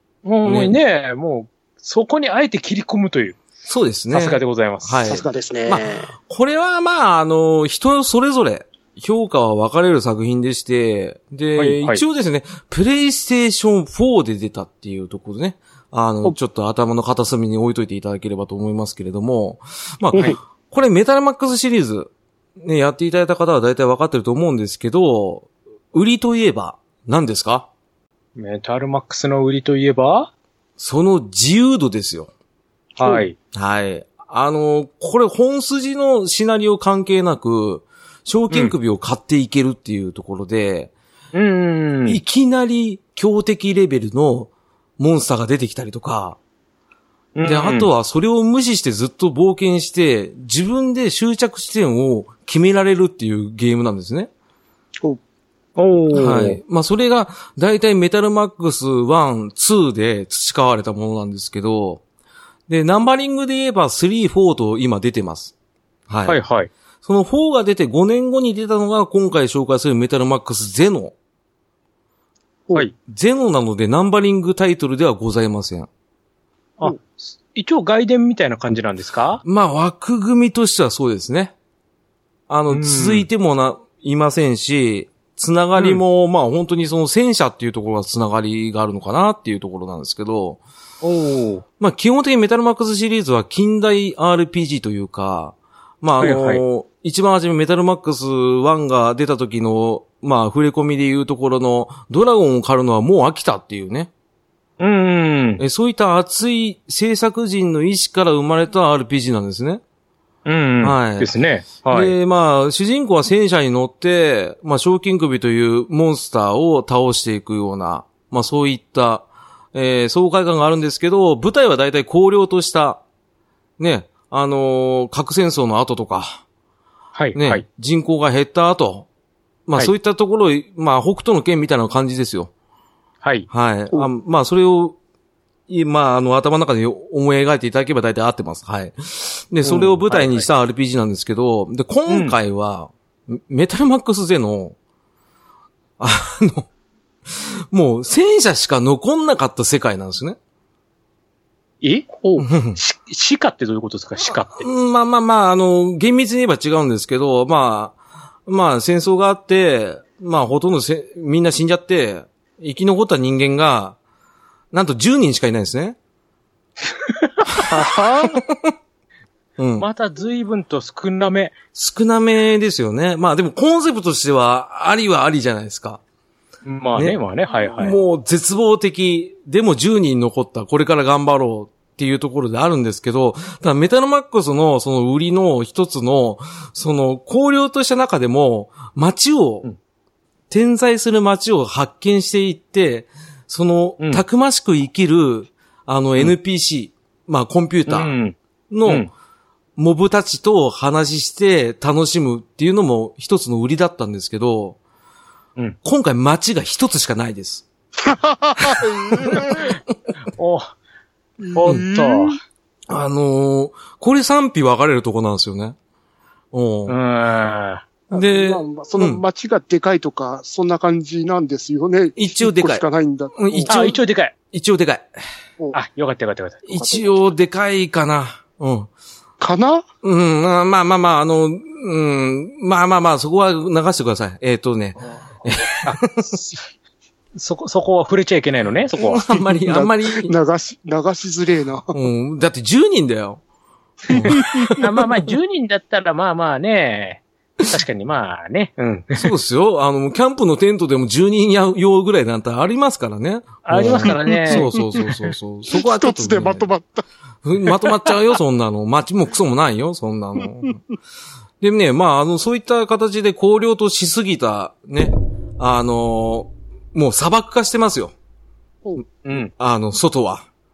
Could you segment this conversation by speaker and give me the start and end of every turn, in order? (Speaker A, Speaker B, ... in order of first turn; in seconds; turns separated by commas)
Speaker A: 0.2-3.4, Speaker B: 0.5-0.8, Speaker B: 3.6-27.7, Speaker A: 4.1-5.1, Speaker C: 5.1-6.1, Speaker A: 11.6-12.0, Speaker A: 28.4-30.3, Speaker B: 30.8-32.3, Speaker A: 33.0-33.4, Speaker B: 33.5-40.9, Speaker A: 41.3-42.2, Speaker B: 42.1-46.4, Speaker A: 47.4-47.9, Speaker B: 47.4-54.3, Speaker A: 55.8-56.6, Speaker B: 56.1-62.0, Speaker B: 62.7-65.5, Speaker B: 66.1-66.4, Speaker A: 66.3-66.7, Speaker B: 67.0-71.2, Speaker B: 73.1-75.9, Speaker A: 76.8-79.4, Speaker B: 79.4-81.5, Speaker B: 82.5-90.6, Speaker A: 82.7-83.3, Speaker A: 85.8-86.0, Speaker A: 91.0-91.6, Speaker B: 91.8-104.1, Speaker A: 96.2-96.6, Speaker A: 104.8-105.6, Speaker B: 105.6-109.8, Speaker A: 110.5-112.1, Speaker B: 110.8-111.3, Speaker B: 111.9-123.0, Speaker B: 123.8-126.4, Speaker A: 127.2-127.6, Speaker B: 127.3-129.1, Speaker B: 129.7-132.5, Speaker A: 133.2-133.5, Speaker B: 133.5-135.0, Speaker B: 135.7-144.8, Speaker A: 139.6-140.5, Speaker A: 142.1-142.3, Speaker B: 146.0-146.7, Speaker B: 147.3-150.4, Speaker A: 151.8-154.7, Speaker B: 152.4-152.8, Speaker B: 154.6-164.0, Speaker B: 164.7-166.0, Speaker A: 167.2-167.8, Speaker B: 167.5-168.7, Speaker C: 167.7-168.4, Speaker B: 169.6-169.9, Speaker A: 169.8-171.6, Speaker B: 171.8-176.0, Speaker A: 176.7-178.0, Speaker B: 177.8-189.7, Speaker B: 190.5-198.1, Speaker A: 197.9-199.1, Speaker B: 198.7-199.1, Speaker B: 199.8-204.8, Speaker B: 205.8-207.7, Speaker C: 208.0-209.8, Speaker B: 208.6-209.6, Speaker A: 210.3-210.8, Speaker C: 211.4-212.4, Speaker A: 211.6-212.4, Speaker B: 212.9-215.8, Speaker B: 216.5-217.0, Speaker A: 216.9-217.9, Speaker C: 218.1-223.8, Speaker B: 218.1-219.2, Speaker B: 222.2-222.8, Speaker B: 223.4-224.0, Speaker A: 223.7-224.3, Speaker B: 224.5-225.1, Speaker A: 225.7-226.7, Speaker B: 226.7-228.9, Speaker C: 226.8-227.1, Speaker C: 229.4-229.8, Speaker B: 230.0-236.2, Speaker A: 235.8-236.6, Speaker A: 237.4-239.2, Speaker B: 239.0-240.3, Speaker C: 239.7-241.9, Speaker B: 241.9-243.4, Speaker B: 244.1-244.8, Speaker C: 244.1-244.8, Speaker A: 244.8-249.3, Speaker B: 249.2-256.7, Speaker A: 253.7-254.7, Speaker C: 254.4-255.1, Speaker C: 255.7-257.1, Speaker B: 257.4-260.8, Speaker B: 261.6-268.1, Speaker A: 269.2-269.5, Speaker B: 269.6-270.5